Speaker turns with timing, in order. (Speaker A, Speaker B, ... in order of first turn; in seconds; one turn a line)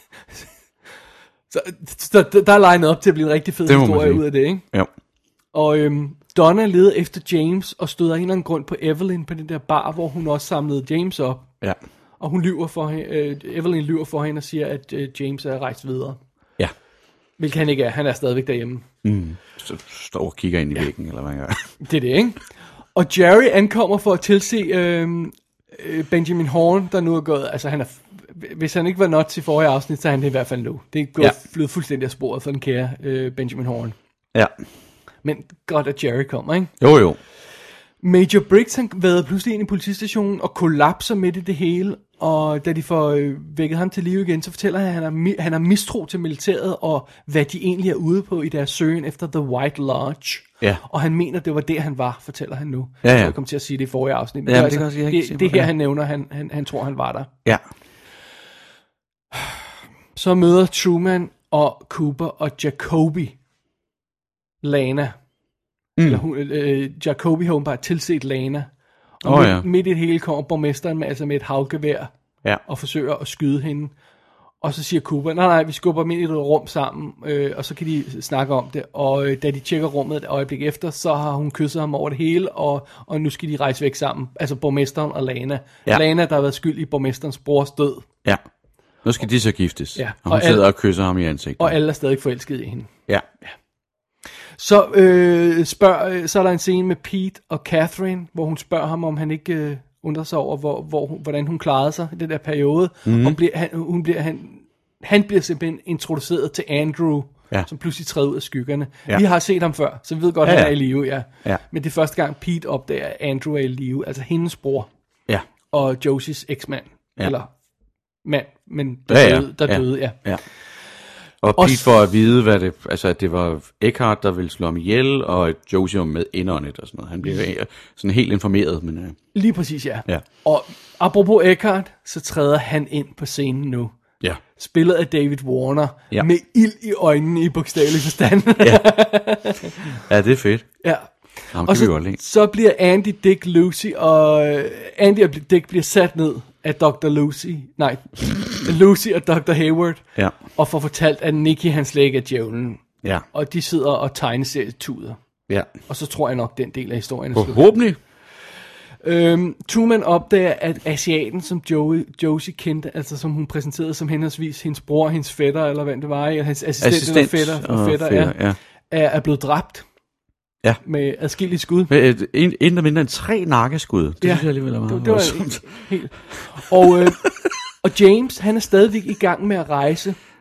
Speaker A: 1.5-4.7
Speaker B: 3.7-4.9
Speaker A: 5.5-11.5
Speaker A: 12.2-16.2
Speaker A: 17.4-18.9
Speaker B: 19.0-21.7
Speaker A: 21.8-34.0
Speaker A: 35.2-36.7
Speaker B: 36.8-37.2
Speaker A: 38.0-57.3
Speaker B: 53.0-53.4
Speaker B: 54.5-55.7
Speaker A: 60.1-63.4
Speaker A: 64.6-65.2
Speaker B: 66.0-66.2
Speaker A: 66.1-68.7
Speaker A: 69.2-72.1
Speaker B: 69.2-69.7
Speaker A: 72.7-73.9
Speaker A: 74.6-88.1
Speaker B: 89.0-91.8
Speaker A: 90.0-90.7
Speaker A: 91.6-92.9
Speaker A: 94.6-114.9
Speaker B: 103.1-103.4
Speaker B: 110.4-111.6
Speaker A: 115.7-117.5
Speaker A: 118.2-120.2
Speaker B: 119.1-120.4
Speaker B: 121.4-129.2
Speaker A: 121.6-121.9
Speaker A: 129.3-134.0
Speaker A: 134.6-139.8
Speaker B: 138.6-138.9
Speaker B: 140.0-140.8
Speaker A: 140.8-155.2
Speaker B: 141.5-142.2
Speaker A: 155.9-157.6
Speaker B: 157.3-158.0
Speaker A: 159.0-169.9
Speaker B: 166.8-168.6
Speaker A: 170.8-171.9
Speaker B: 171.9-176.4
Speaker A: 174.2-177.2
Speaker A: 177.8-180.2